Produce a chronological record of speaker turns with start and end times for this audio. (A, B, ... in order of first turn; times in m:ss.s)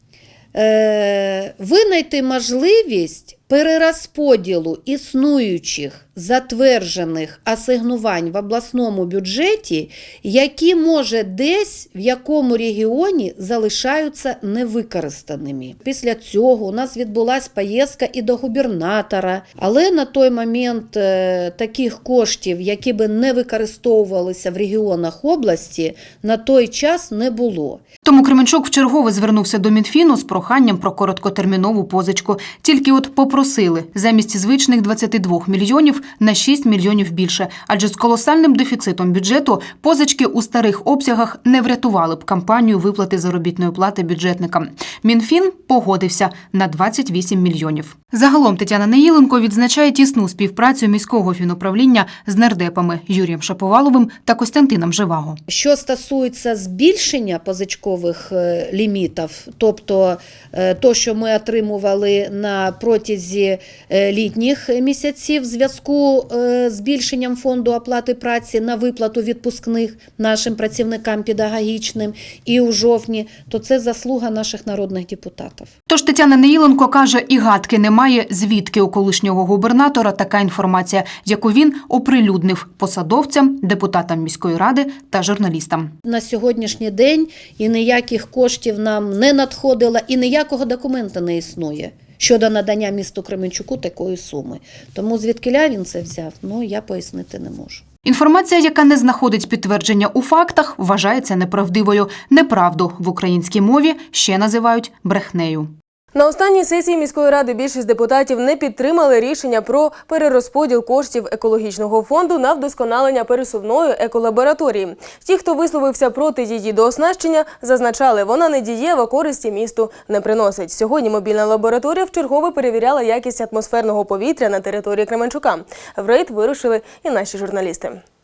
0:00.6-0:27.8 A
0:28.0-0:55.4 B
0:55.5-1:15.7 A
1:15.9-1:25.9 B
1:26.0-1:37.8 A
1:38.0-1:45.7 B
1:46.1-2:08.0 C